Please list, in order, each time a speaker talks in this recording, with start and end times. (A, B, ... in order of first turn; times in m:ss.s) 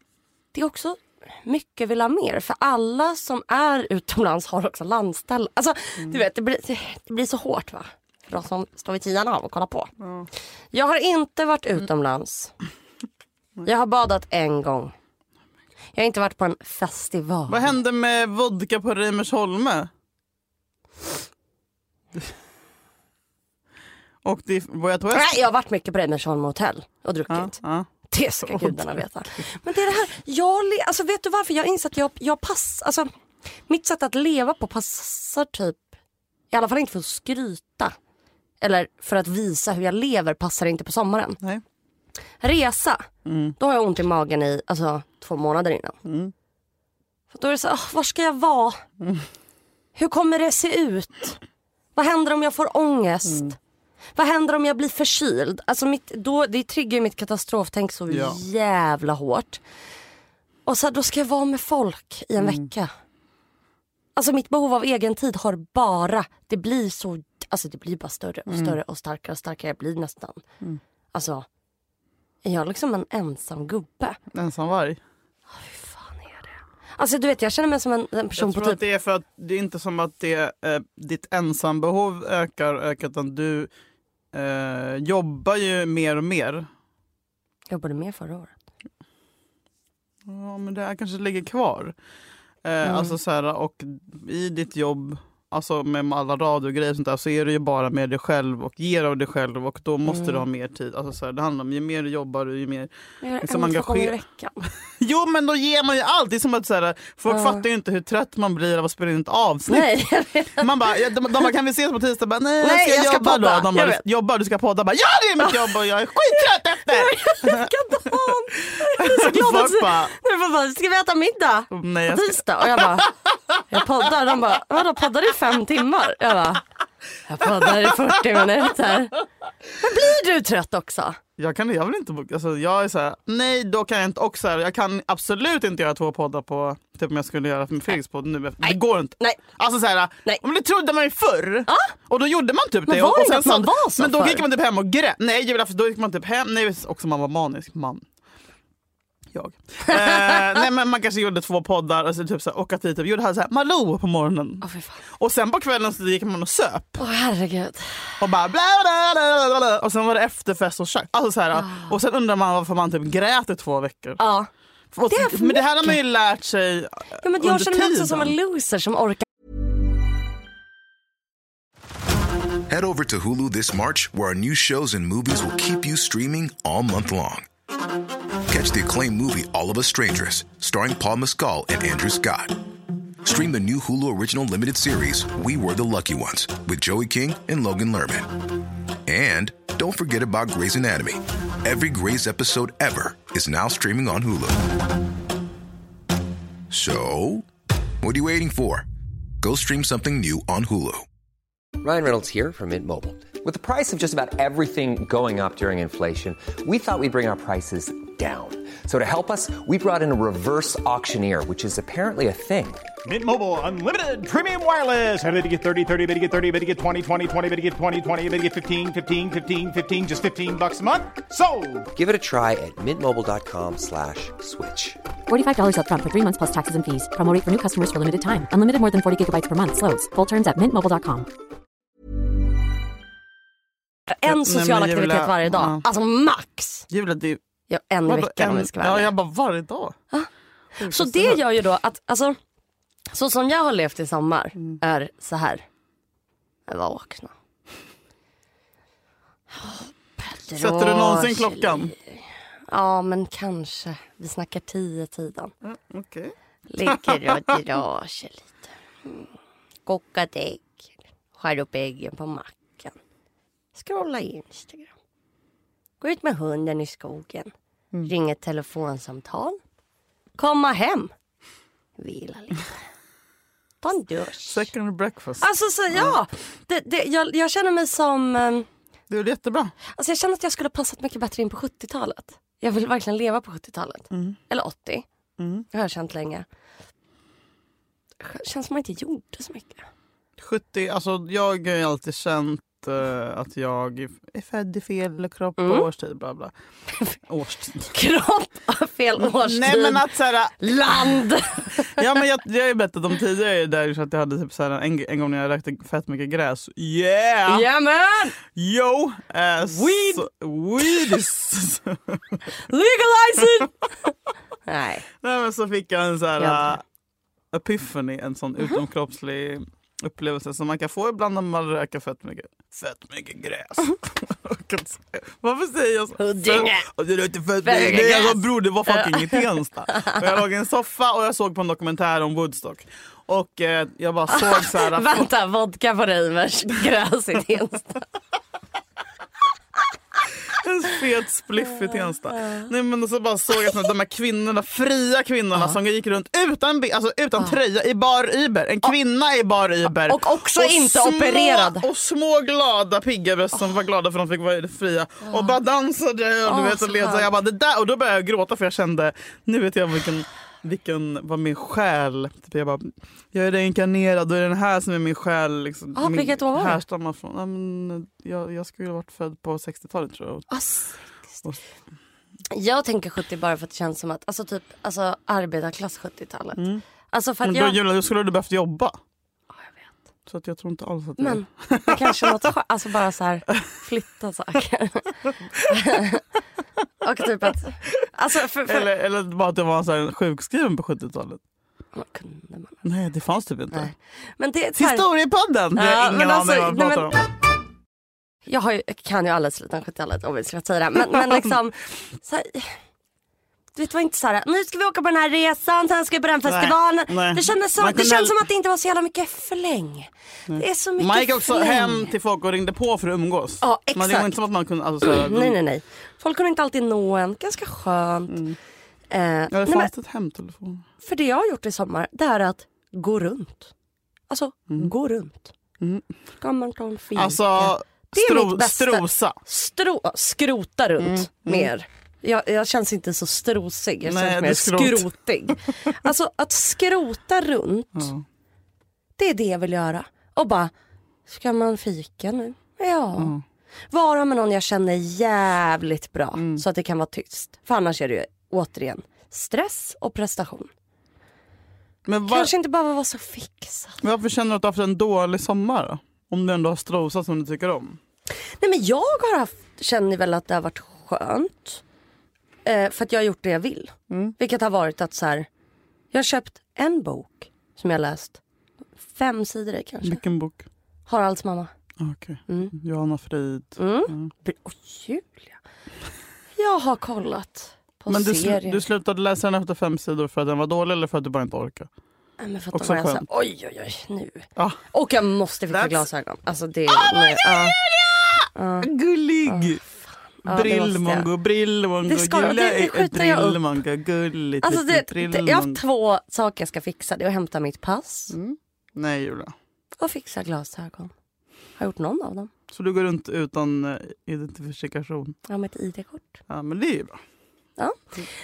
0:00.5-0:09.9 A
0:10.0-0:10.3 B
0:10.7-0:12.5 A
0:13.6-0:14.9 A
0:16.0-0:17.7 A
0:17.5-0:19.9 B
0:24.2-0:25.3 B
0:25.1-0:27.6 A
0:27.3-0:27.9 B
0:28.1-0:33.1 A
0:28.4-0:29.4 B
0:33.7-0:35.8 A
0:36.5-0:38.0 A
0:38.6-0:41.4 A
0:42.4-0:46.0 A
0:43.2-0:43.6 B
0:46.0-0:46.3 B
0:47.3-0:48.8 A
0:49.0-0:49.3 B
0:50.0-0:51.4 A
0:52.0-0:53.6 A
0:53.3-0:53.6 B
0:54.2-0:59.6 A
0:58.1-0:58.4 B
1:00.7-1:02.9 A
1:04.2-1:10.4 A
1:08.5-1:08.8 B
1:11.1-1:11.5 A
1:12.4-1:14.2 A
1:14.3-1:15.0 B
1:15.5-1:18.8 A
1:18.4-1:23.7 B
1:24.3-1:26.7 B
1:27.7-1:28.5 A
1:30.3-1:32.0 B
1:32.6-1:42.9 B
1:32.8-1:33.2 A
1:40.1-1:40.4 A
1:43.2-1:44.7 A
1:43.4-1:44.2 B
1:45.0-1:49.9 B
1:47.3-1:47.6 A
1:49.7-1:50.7 A
1:50.6-1:57.7 B
1:52.6-1:54.0 A
1:56.9-2:03.1 A
1:58.6-2:00.1 B
2:01.7-2:03.1 B
2:03.7-2:06.6 A
2:07.3-2:09.2 A
2:09.8-2:11.2 A
2:11.4-2:28.0 B
2:18.6-2:19.4 A
2:21.7-2:21.9 A
2:22.9-2:24.4 A
2:29.3-2:34.6 B
2:29.9-2:30.3 A
2:34.6-2:35.0 A
2:35.2-2:37.0 B
2:37.0-2:38.3 A
2:38.2-2:44.2 B
2:41.5-2:42.0 A
2:44.2-2:44.5 A
2:44.9-2:48.3 B
2:45.1-2:46.0 A
2:47.2-2:49.2 A
2:52.7-2:57.5 C
2:58.5-3:02.6 C
3:03.2-3:08.3 C
3:09.1-3:14.6 C
3:16.7-3:17.5 C
3:18.0-3:18.9 C
3:19.4-3:21.0 C
3:21.8-3:32.8 D
3:33.0-3:41.9 E
3:41.9-3:45.0 D
3:45.3-3:51.3 F
3:54.1-3:56.9 A
3:54.3-3:55.8 B
3:56.9-3:57.4 B
3:57.7-3:59.1 A
3:58.1-4:00.0 B
4:00.1-4:02.4 A
4:00.8-4:01.4 B
4:03.1-4:05.6 A
4:06.7-4:07.3 A
4:09.5-4:15.5 A
4:10.6-4:11.9 B
4:15.6-4:17.5 B
4:16.7-4:19.3 A
4:19.9-4:23.0 A
4:23.8-4:24.9 A
4:26.0-4:27.5 A
4:28.1-4:29.6 A
4:30.4-4:31.1 A
4:32.0-4:32.7 A
4:33.8-4:34.7 A
4:34.5-4:36.2 B
4:35.4-4:38.7 A
4:39.1-4:39.8 B
4:39.9-4:45.0 A
4:44.1-4:44.4 B
4:45.4-4:45.7 B
4:45.7-4:46.5 A
4:48.2-4:49.9 A
4:50.4-4:56.5 B
4:55.6-4:55.9 A
4:57.3-4:57.9 B
4:57.9-5:02.0 A
4:59.2-5:01.2 B
5:01.8-5:07.7 B
5:07.5-5:08.4 A
5:08.5-5:12.2 B
5:09.7-5:10.2 A
5:12.7-5:14.1 A
5:14.7-5:15.1 A
5:15.2-5:16.8 B
5:16.4-5:16.6 A
5:17.5-5:35.3 B
5:26.2-5:26.9 A
5:27.6-5:30.2 A
5:34.3-5:38.0 A
5:40.5-6:10.5 B
5:41.7-5:42.7 A
5:50.1-5:51.9 A
5:55.2-5:55.6 A
5:56.5-5:57.3 A
6:06.0-6:06.8 A
6:10.5-6:11.4 A
6:12.5-6:17.8 A
6:16.6-6:16.8 B
6:17.4-6:19.0 B
6:20.3-6:22.4 B
6:21.2-6:26.2 A
6:27.0-6:28.9 A
6:28.7-6:31.4 B
6:31.9-6:32.8 A
6:32.8-6:33.9 B
6:33.7-6:35.1 A
6:34.8-6:37.2 B
6:35.8-6:37.2 A
6:38.5-6:42.8 A
6:43.8-6:52.1 A
6:46.5-6:48.4 B
6:50.5-6:55.6 B
6:53.6-6:54.3 A
6:55.0-6:58.4 A
6:58.3-6:58.6 B
6:59.1-6:59.9 A
6:59.5-7:00.8 B
7:01.0-7:03.7 A
7:04.3-7:05.5 A
7:05.8-7:06.1 B
7:06.4-7:18.1 A
7:07.2-7:09.4 B
7:11.0-7:11.7 B
7:14.0-7:15.0 B
7:18.0-7:18.2 B
7:19.2-7:20.7 A
7:21.3-7:23.3 A
7:23.2-7:23.4 B
7:23.9-7:30.7 A
7:26.4-7:26.6 B
7:32.1-7:32.5 B
7:32.3-7:34.0 A
7:34.0-7:38.0 B
7:38.6-7:41.8 A
7:42.6-7:45.5 A
7:44.1-7:44.4 B
7:46.1-7:48.4 A
7:49.0-7:50.2 A
7:50.0-7:50.6 B
7:51.1-7:51.7 A
7:52.0-7:54.3 B
7:53.8-7:55.6 A
7:56.6-7:58.8 A
7:58.1-8:01.9 B
8:02.4-8:07.8 A
8:02.7-8:03.3 B
8:05.7-8:06.1 B
8:06.9-8:09.8 B
8:08.6-8:08.9 A
8:09.5-8:11.3 A
8:10.4-8:15.8 B
8:12.1-8:13.6 A
8:14.6-8:18.4 A
8:18.3-8:19.5 B
8:20.0-8:21.1 A
8:21.8-8:22.5 A
8:22.7-8:25.4 B
8:25.5-8:26.4 A
8:26.5-8:27.2 B
8:27.8-8:28.3 A